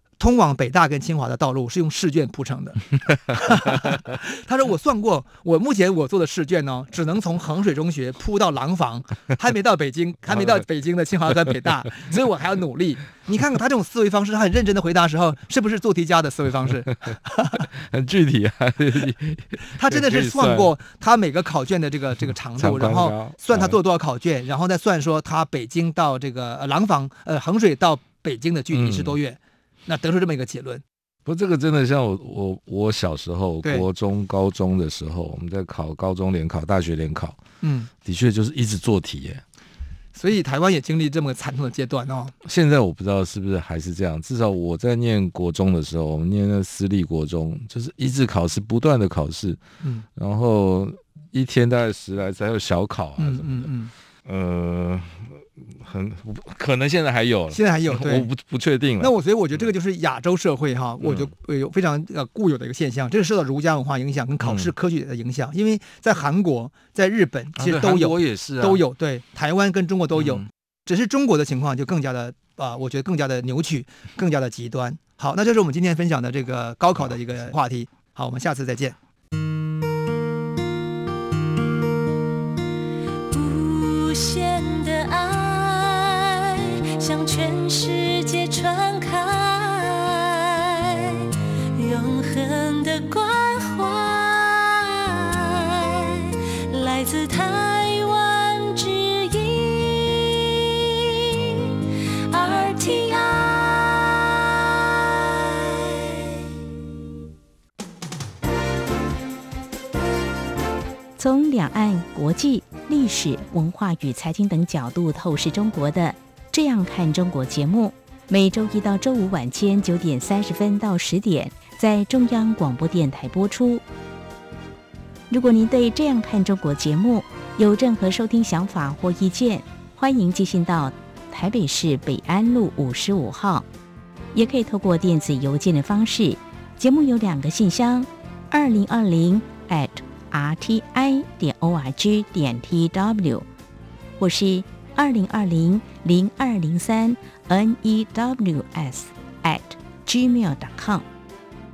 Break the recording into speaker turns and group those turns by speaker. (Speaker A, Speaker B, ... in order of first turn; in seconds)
Speaker A: 0.2-17.7, 19.7-30.8, 37.6-37.9, 40.1-42.3, 53.2-53.9, 57.5-58.3, 59.0-79.0
Speaker B: 17.7-20.7, 22.6-23.8, 28.7-29.2, 31.2-37.4, 38.0-39.4, 42.4-49.6, 50.2-53.7, 54.2-59.1, 61.0-61.3, 64.4-64.7, 67.6-68.8, 70.2-70.5
Speaker C: 83.3-106.5
Speaker D: 111.2-123.8, 125.3-133.7, 134.3-143.5, 144.2-151.0